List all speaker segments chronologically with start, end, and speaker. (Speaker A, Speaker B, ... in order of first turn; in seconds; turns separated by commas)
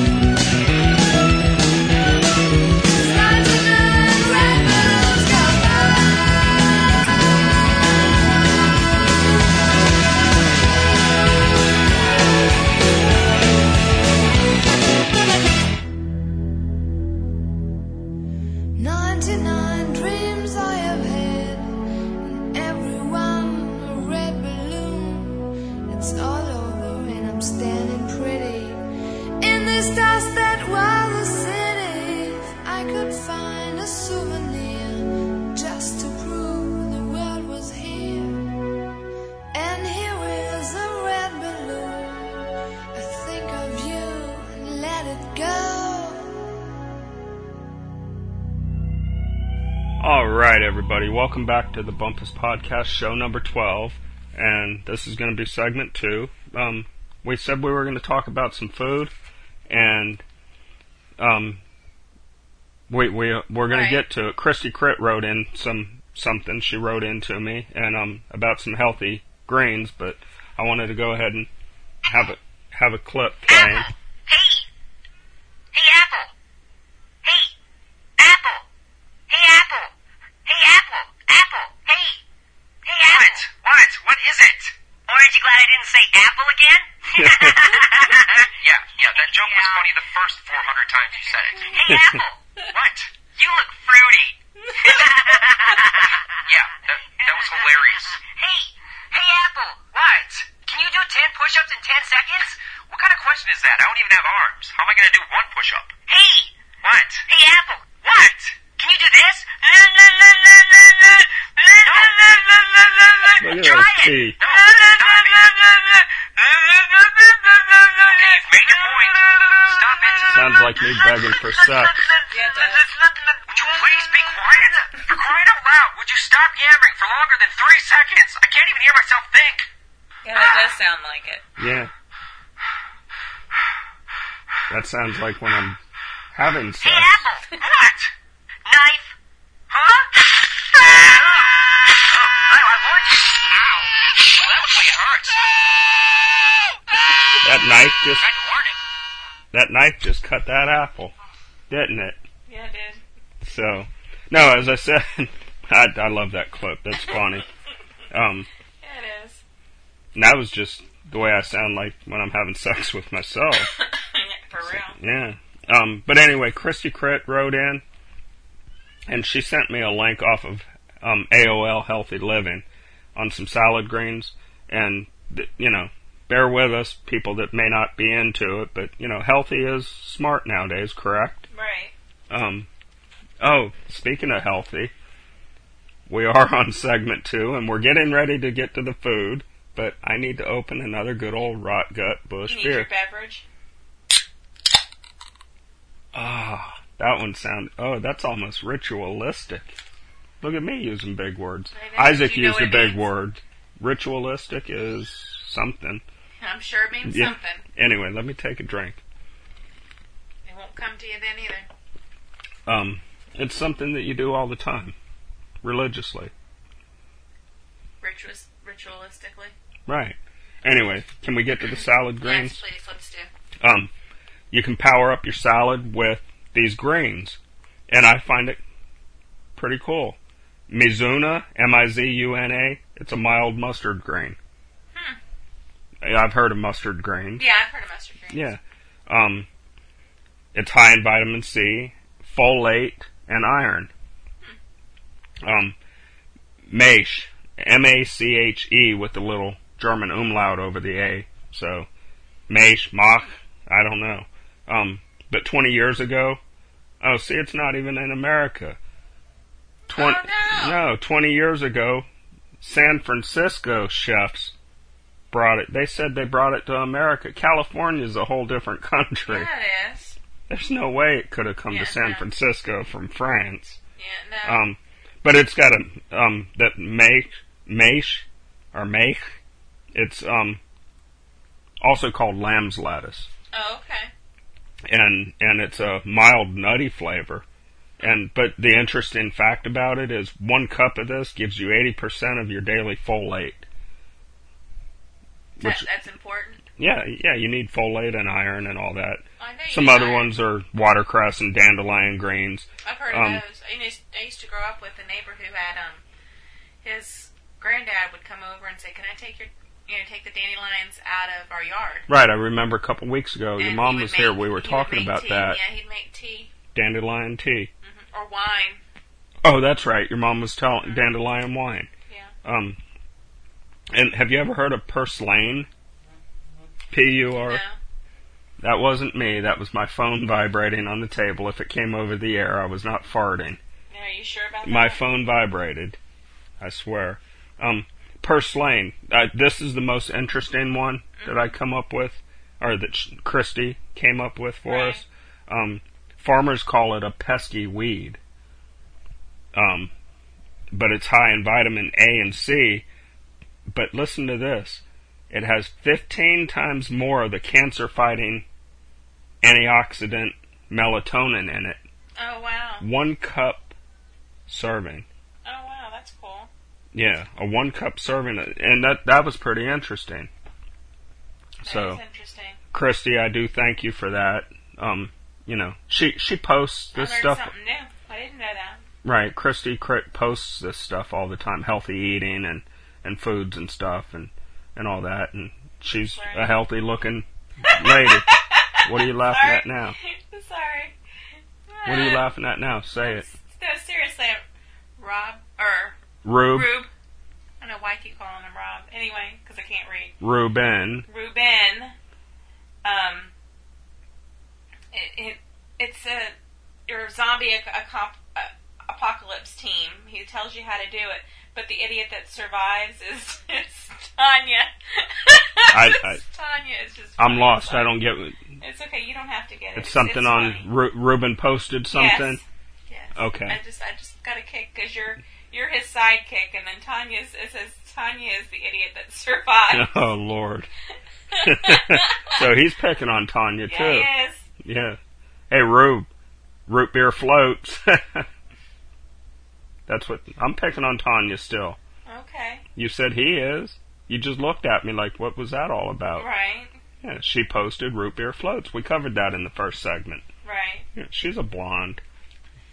Speaker A: 2.9-6.5, Speaker A: 18.8-28.8, Speaker A: 29.4-38.5, Speaker A: 39.5-46.3, Speaker B: 50.0-59.1, Speaker B: 59.7-60.2, Speaker B: 61.2-61.6, Speaker B: 62.9-71.5, Speaker C: 63.7-64.0, Speaker B: 72.0-73.9, Speaker D: 73.5-74.7, Speaker D: 75.7-76.3, Speaker D: 77.2-77.5, Speaker D: 78.2-78.7, Speaker D: 79.3-79.9, Speaker D: 80.5-82.2, Speaker D: 82.8-83.5, Speaker E: 83.0-84.7, Speaker D: 85.1-90.0, Speaker B: 87.2-87.8, Speaker E: 88.6-91.8, Speaker D: 91.6-92.4, Speaker B: 91.8-92.2, Speaker E: 92.7-93.1, Speaker D: 93.2-102.6, Speaker E: 96.5-98.2, Speaker E: 102.9-105.9, Speaker D: 106.1-106.6, Speaker E: 106.8-107.2, Speaker D: 107.2-115.8, Speaker E: 111.8-112.3, Speaker B: 113.4-114.4, Speaker E: 114.4-115.7, Speaker E: 116.3-129.7, Speaker D: 117.9-120.3, Speaker B: 120.3-121.9, Speaker C: 122.3-122.8, Speaker D: 123.5-124.7, Speaker C: 130.2-131.4, Speaker B: 131.6-131.9, Speaker B: 134.7-135.8, Speaker B: 136.3-137.2, Speaker D: 136.8-137.5, Speaker E: 137.6-138.1, Speaker D: 138.7-139.1, Speaker D: 140.7-141.5, Speaker E: 140.9-141.4, Speaker E: 142.1-145.4, Speaker B: 147.4-148.3, Speaker E: 148.1-148.8, Speaker B: 149.5-151.1, Speaker B: 151.7-152.2, Speaker C: 152.5-153.0, Speaker B: 153.4-157.4, Speaker B: 158.1-158.5, Speaker C: 158.8-159.4, Speaker B: 160.1-163.7, Speaker C: 163.6-165.0, Speaker B: 164.6-167.8, Speaker B: 169.1-181.5, Speaker C: 181.5-181.9, Speaker B: 182.3-182.7, Speaker B: 183.4-184.9, Speaker B: 186.1-192.9, Speaker C: 192.4-193.4, Speaker B: 196.1-199.7, Speaker B: 200.4-206.0, Speaker C: 201.7-203.1, Speaker C: 206.4-207.6, Speaker B: 207.0-209.0, Speaker C: 210.4-211.7, Speaker B: 212.7-214.9, Speaker B: 215.6-216.3, Speaker C: 218.0-219.5, Speaker B: 219.9-222.6, Speaker C: 222.2-223.3, Speaker B: 223.6-223.9, Speaker B: 224.5-227.4, Speaker B: 227.9-228.6, Speaker B: 229.6-230.2, Speaker B: 230.7-234.4, Speaker C: 234.9-235.2, Speaker B: 236.0-237.4, Speaker C: 237.4-238.5, Speaker B: 238.3-239.5, Speaker B: 240.5-243.9, Speaker B: 245.4-245.8, Speaker B: 246.7-251.9, Speaker B: 252.5-256.4, Speaker B: 257.0-258.8, Speaker B: 259.9-262.1, Speaker C: 259.9-260.8, Speaker B: 262.6-264.5, Speaker B: 265.3-269.5, Speaker C: 269.3-270.2, Speaker B: 270.5-273.8, Speaker C: 271.7-272.2, Speaker C: 274.0-274.6, Speaker B: 274.4-279.2, Speaker B: 279.9-280.6, Speaker B: 281.8-283.3, Speaker C: 283.5-284.1, Speaker B: 284.8-287.4, Speaker B: 288.0-293.6, Speaker B: 295.6-295.9, Speaker C: 295.6-296.6, Speaker B: 296.8-303.4, Speaker C: 299.4-300.3, Speaker C: 302.8-306.0, Speaker C: 306.8-312.1, Speaker B: 312.1-315.6, Speaker C: 313.6-316.5, Speaker B: 316.7-317.7, Speaker C: 317.8-318.8, Speaker B: 319.4-321.9, Speaker C: 320.8-321.1, Speaker C: 322.1-322.3, Speaker B: 322.4-322.8, Speaker B: 323.9-325.7, Speaker B: 326.9-327.6, Speaker C: 327.4-327.8, Speaker B: 328.6-333.6, Speaker C: 333.9-335.0, Speaker B: 334.6-336.0, Speaker B: 336.6-348.2, Speaker C: 341.2-341.6, Speaker C: 344.6-345.0, Speaker B: 349.5-349.9, Speaker B: 350.7-352.9, Speaker B: 353.7-358.4, Speaker B: 359.4-361.8, Speaker C: 362.2-362.9, Speaker B: 362.8-363.7, Speaker B: 364.5-365.1, Speaker C: 365.4-366.5, Speaker B: 366.9-370.3, Speaker B: 371.6-372.0, Speaker C: 371.6-372.6, Speaker B: 372.7-377.5, Speaker C: 376.9-378.8, Speaker B: 379.0-388.3, Speaker C: 386.1-386.6, Speaker C: 387.6-390.9, Speaker B: 388.8-389.9, Speaker C: 391.7-392.3, Speaker B: 391.9-393.2, Speaker C: 393.0-394.4, Speaker C: 395.0-396.9, Speaker B: 396.2-396.7, Speaker C: 397.6-400.1, Speaker B: 400.2-401.1, Speaker C: 401.1-401.9, Speaker C: 402.8-403.3, Speaker C: 404.9-406.3, Speaker C: 406.9-417.9, Speaker B: 415.7-416.2, Speaker B: 417.2-418.4, Speaker C: 418.6-420.7, Speaker B: 419.8-422.4, Speaker C: 421.9-430.0, Speaker B: 423.1-423.6, Speaker B: 429.7-430.7, Speaker C: 431.3-432.4, Speaker B: 431.4-434.1, Speaker C: 433.7-434.4, Speaker B: 434.6-435.0, Speaker B: 435.5-436.1, Speaker B: 436.7-438.3, Speaker B: 439.9-441.8, Speaker C: 442.1-442.6, Speaker B: 442.8-446.3, Speaker C: 446.2-446.8, Speaker B: 447.0-450.2, Speaker C: 450.4-450.9, Speaker B: 450.9-452.0